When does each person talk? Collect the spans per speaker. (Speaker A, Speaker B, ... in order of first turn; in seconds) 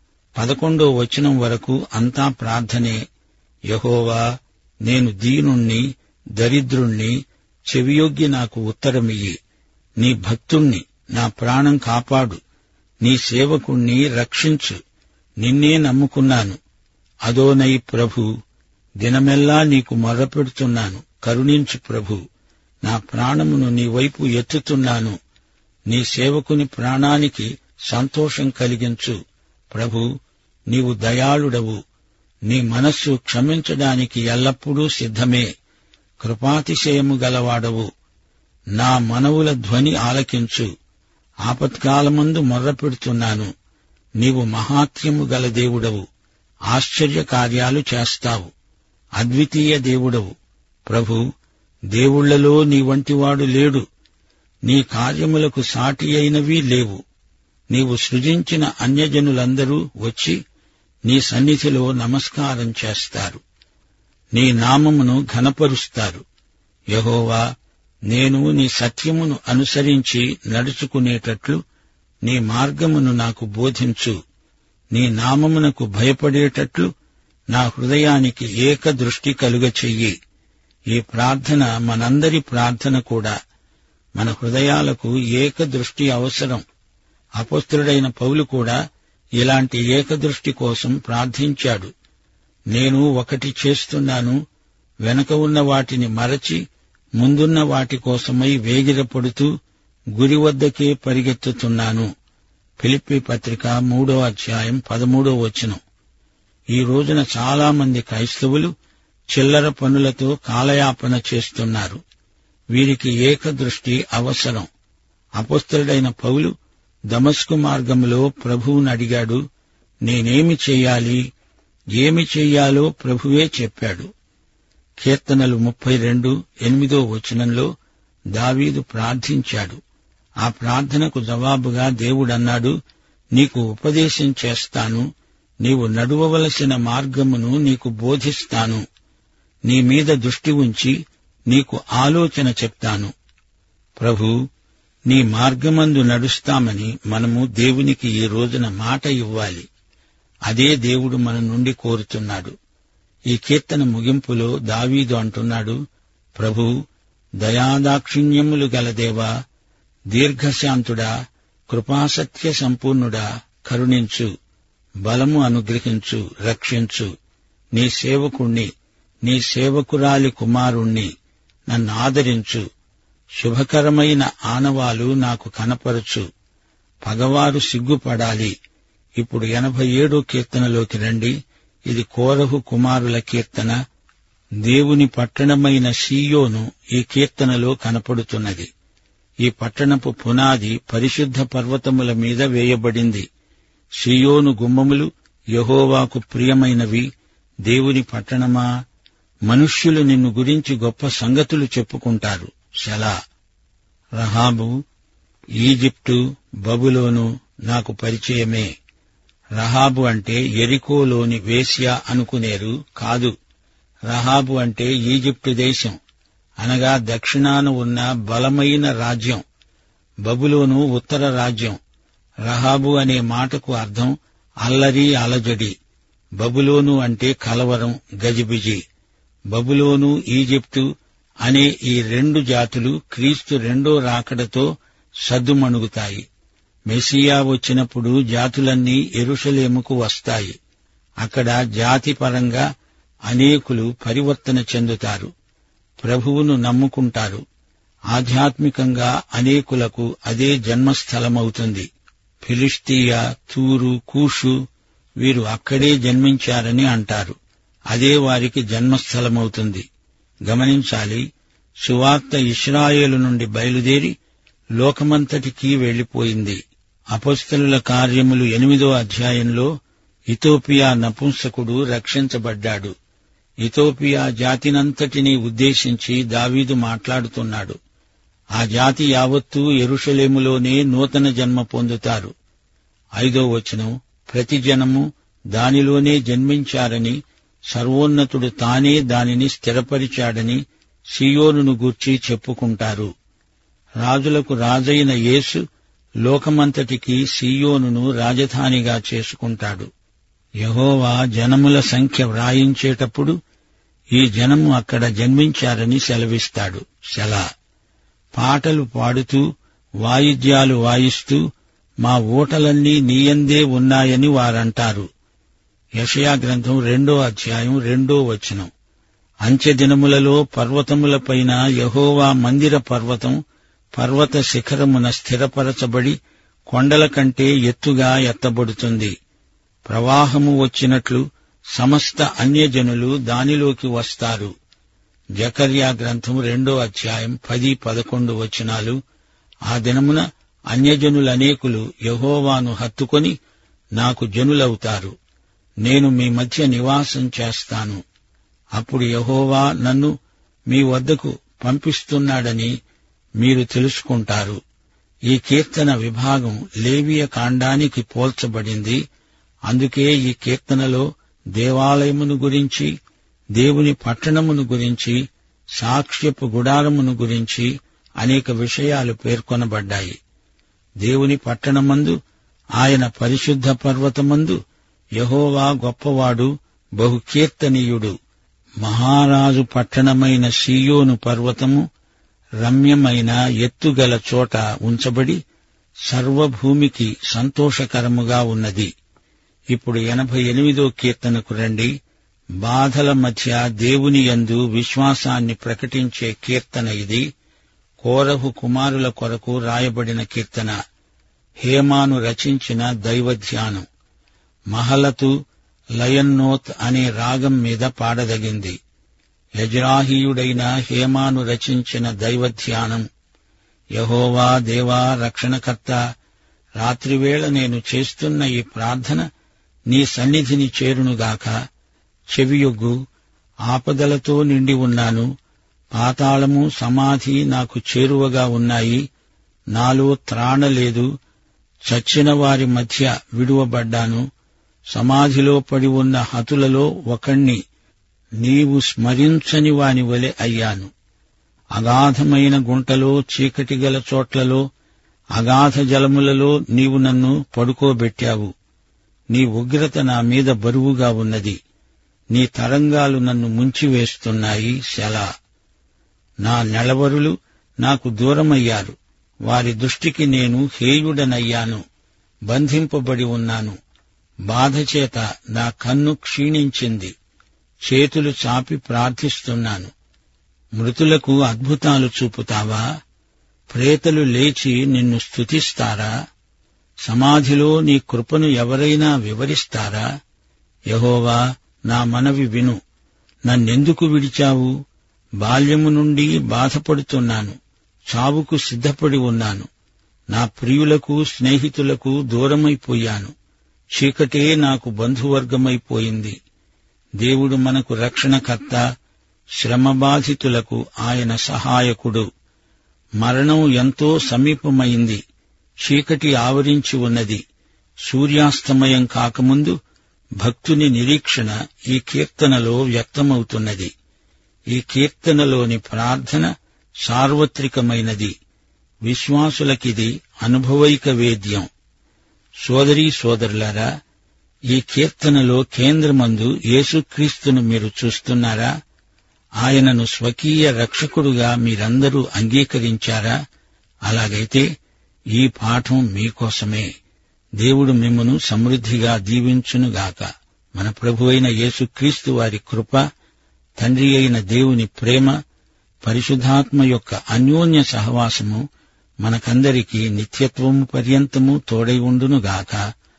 Speaker A: 0.3-3.0, 3.7-4.2, 4.8-5.8, 6.4-7.2, 7.7-9.3, 10.0-12.4, 13.0-14.8, 15.4-16.6, 17.2-18.3, 19.0-22.2, 22.8-25.1, 25.9-29.1, 29.7-30.1, 30.7-31.8, 32.5-35.5, 36.2-37.9, 38.8-40.7, 41.5-43.5, 44.2-46.0, 46.7-48.5, 49.2-50.3, 50.9-51.2, 51.9-53.8, 54.6-57.0, 57.7-60.4, 61.1-63.4, 64.3-66.2, 66.9-67.4, 68.1-71.6, 72.2-74.2, 74.9-76.9, 77.5-80.1, 80.9-83.3, 84.2-86.6, 87.4-88.8, 89.4-91.9, 92.7-94.4, 95.0-96.6, 97.2-99.5, 100.1-102.1, 102.8-105.8, 106.7-108.7, 109.3-112.0, 112.7-114.7, 115.4-116.5, 117.1-119.4, 120.0-121.2, 121.9-124.1, 125.0-127.7, 128.3-129.8, 130.4-132.7, 133.3-135.1, 135.6-138.8, 139.7-140.9, 141.5-143.1, 144.0-144.3, 145.1-149.7, 150.5-152.5, 153.3-155.8, 156.3-156.7, 157.4-159.3, 160.1-161.1, 161.7-164.3, 165.0-167.1, 167.7-168.7, 169.2-171.1, 171.7-172.6, 173.4-176.2, 177.0-178.5, 179.2-181.3, 181.9-183.7, 184.6-188.7, 189.4-193.2, 194.0-197.1, 197.7-198.7, 199.4-203.1, 204.2-204.8, 205.6-208.7, 209.6-213.3, 214.1-216.0, 216.6-219.4, 220.2-221.8, 222.4-224.1, 224.6-225.7, 226.4-228.8, 229.5-230.9, 231.4-234.7, 235.2-236.2, 236.9-240.6, 241.2-242.6, 243.3-245.3, 246.0-247.4, 248.1-251.9, 252.4-254.6, 255.2-257.4, 257.9-259.8, 260.4-261.2, 261.8-264.1, 264.8-266.6, 267.1-269.7, 270.3-272.9, 273.6-277.8, 278.6-282.3, 283.2-287.2, 287.7-290.6, 291.1-293.1, 294.0-295.6, 296.2-299.9, 300.6-303.4, 304.1-307.4, 308.3-309.4, 310.0-311.4, 312.0-315.1, 316.0-318.7, 319.4-323.4, 323.9-326.1, 326.7-329.1, 329.9-331.2, 331.7-334.5, 335.4-339.0, 339.7-343.4, 343.9-345.1, 345.8-348.0, 348.8-350.1, 350.7-352.7, 353.4-354.6, 355.3-359.0, 359.7-362.9, 363.6-365.2, 365.8-370.2, 371.0-372.2, 372.8-374.6, 375.2-378.1, 378.8-381.9, 382.6-385.4, 386.1-388.9, 389.7-391.9, 392.6-397.2, 398.0-400.8, 401.6-403.9, 404.7-405.3, 406.0-408.8, 409.6-413.1, 413.9-416.0, 416.8-419.2, 419.9-421.6, 422.3-423.0, 423.7-425.3, 425.9-429.0, 429.7-431.1, 431.9-434.2, 434.9-437.6, 438.4-440.9, 441.8-444.6, 445.4-448.5, 449.3-451.6, 452.3-455.3, 456.4-458.9, 459.4-461.8, 462.5-463.8, 464.5-467.1, 467.8-469.9, 470.8-472.8, 473.7-476.1, 477.1-480.1, 480.9-482.8, 483.5-484.7, 485.4-487.6, 488.1-489.7, 490.3-493.3, 493.9-496.3, 497.2-498.8, 499.6-502.2, 503.2-505.2, 505.8-507.4, 508.0-509.8, 510.4-513.9, 514.7-516.5, 517.0-518.3, 519.0-521.7, 522.6-523.9, 524.7-528.7, 529.6-533.4, 534.1-534.7, 535.3-536.9, 537.6-543.0, 543.8-545.4, 546.0-548.6, 549.2-552.8